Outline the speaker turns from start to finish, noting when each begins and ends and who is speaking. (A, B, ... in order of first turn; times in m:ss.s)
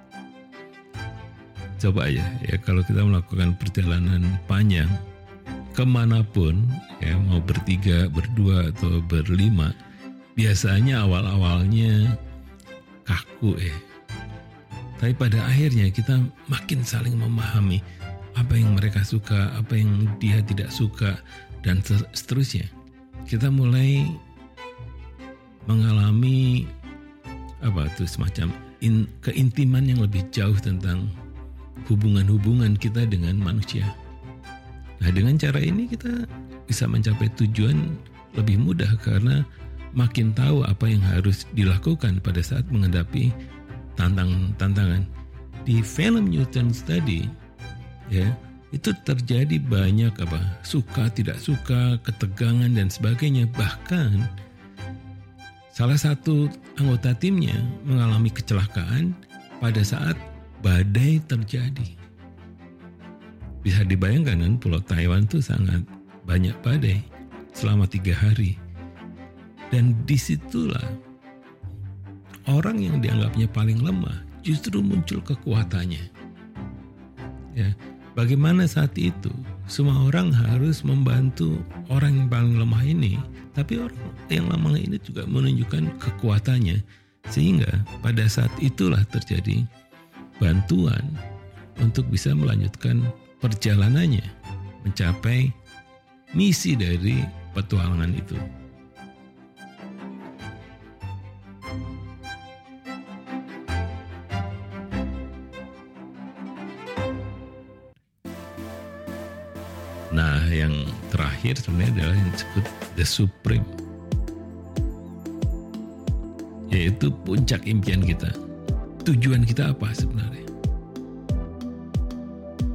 0:01.8-0:04.9 A
0:05.8-0:09.8 A
0:10.4-0:12.2 A
0:13.1-0:13.8 A
0:15.0-0:17.8 A
0:18.4-0:22.7 A
0:23.3-0:24.2 A
0:25.7-0:26.7 A
0:27.6-0:31.1 A
0:31.9-0:33.9 A
0:35.0-0:39.4 A
0:40.0-0:43.3 A
0:44.0-0:45.0 A
0:45.6-0:47.3 A
0:48.1-0:54.3 A
0:55.7-1:01.9 A
1:03.6-1:08.6 A
1:09.7-1:10.9 A
1:12.5-1:16.1 A
1:17.6-1:29.7 A
1:30.4-1:31.2 A
1:31.8-1:34.3 A
1:34.8-1:35.5 A
1:36.3-1:38.4 A
1:50.1-1:53.7 A
1:56.7-1:58.3 A
1:59.0-2:00.5 A